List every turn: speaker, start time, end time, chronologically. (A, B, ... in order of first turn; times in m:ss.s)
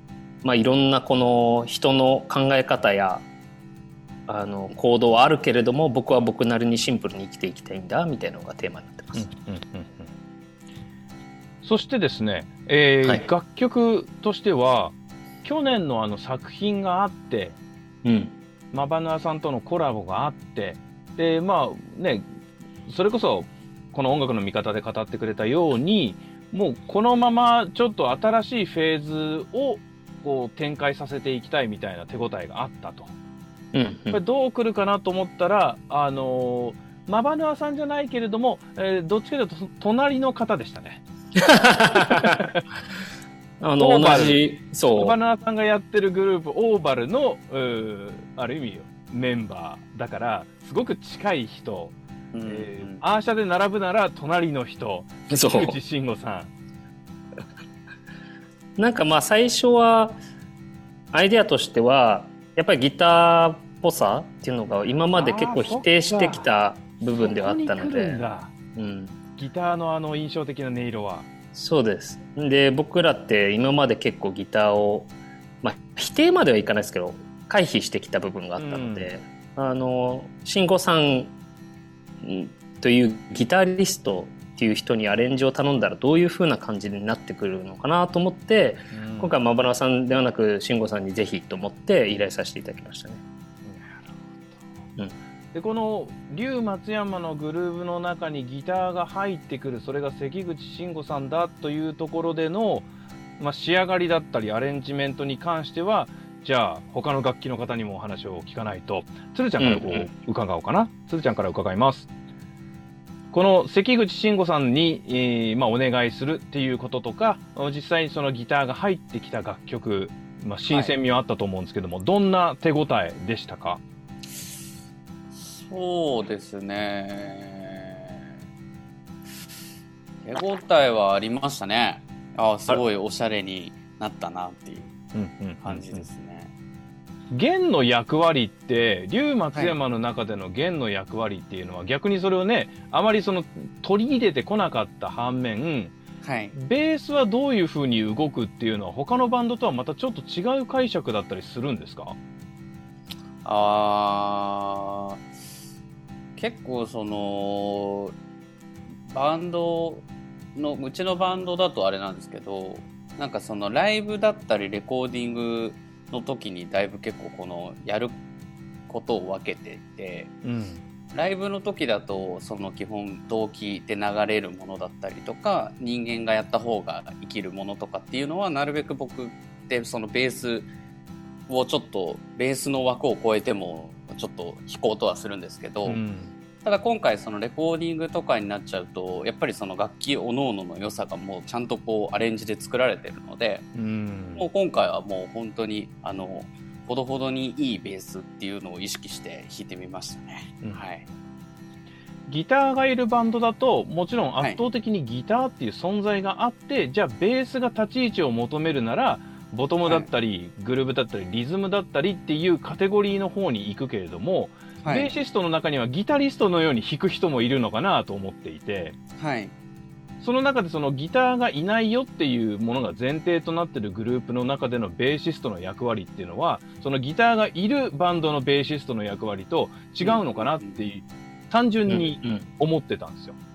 0:00.4-0:03.2 A
0:04.3-0:09.2 A
0:09.1-0:10.1 B
0:11.6-0:17.6 B
0:18.0-0:18.3 A
0:18.7-0:22.2 B
0:22.9-0:33.1 B
0:33.7-0:34.2 A
0:34.1-0:41.0 B
0:41.4-0:42.4 A
0:42.0-0:42.6 B
0:43.6-0:45.1 A
0:43.8-0:44.4 B
0:44.9-0:51.9 B
0:52.3-0:53.0 C
0:52.5-0:56.5 B
0:55.3-0:55.8 A
0:58.8-1:00.2 A
1:01.1-1:08.2 A
1:05.1-1:06.4 B
1:07.1-1:08.5 B
1:08.7-1:09.1 A
1:09.4-1:11.2 B
1:11.5-1:15.1 A
1:15.6-1:21.3 A
1:18.6-1:19.1 B
1:22.2-1:33.2 A
1:28.9-1:29.3 B
1:33.6-1:34.6 B
1:35.5-1:42.9 B
1:43.4-1:52.1 B
1:49.6-1:50.1 A
1:53.3-2:03.8 B
2:05.4-2:08.2 C
2:10.2-2:15.0 C
2:15.1-2:16.0 B
2:15.6-2:16.5 C
2:17.3-2:25.9 B
2:26.2-2:26.5 C
2:26.5-2:32.2 B
2:33.4-2:35.2 C
2:36.4-2:38.1 C
2:39.1-2:40.0 C
2:40.6-2:48.2 C
2:48.9-2:50.3 C
2:50.4-2:50.8 B
2:51.1-3:00.7 C
3:01.5-3:06.0 C
3:05.8-3:06.3 B
3:06.6-3:13.7 C
3:13.7-3:14.5 B
3:14.4-3:21.0 C
3:22.3-3:39.0 B
3:34.8-3:35.1 C
3:39.2-3:39.5 C
3:40.2-3:53.4 B
3:50.0-3:50.8 C
3:51.9-3:52.4 A